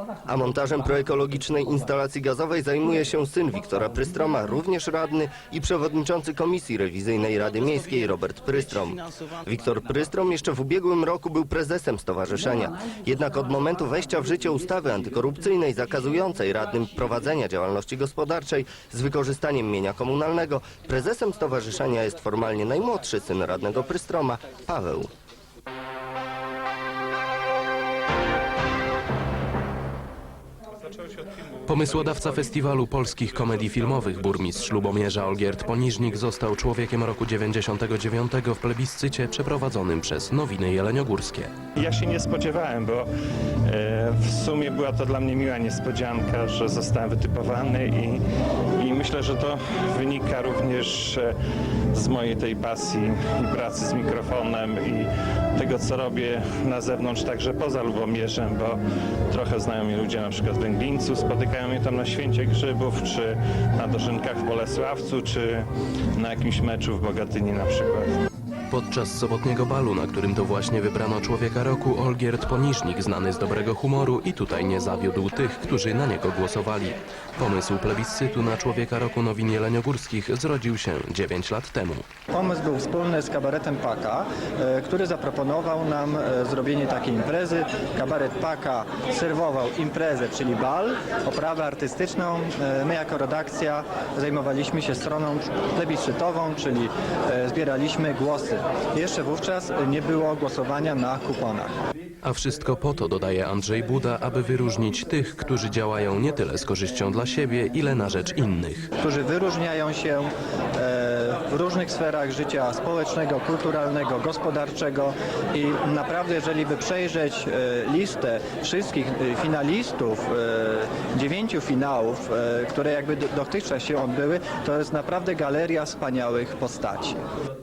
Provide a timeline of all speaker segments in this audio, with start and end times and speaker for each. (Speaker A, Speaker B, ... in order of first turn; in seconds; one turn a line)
Speaker A: 0.2-25.1
Speaker B: 31.7-41.5
Speaker C: 41.8-43.1
Speaker C: 43.6-48.2
Speaker C: 48.8-51.4
Speaker C: 51.9-68.2
Speaker B: 68.7-82.0
Speaker D: 82.3-101.7
Speaker B: 102.2-108.9
Speaker D: 109.0-127.2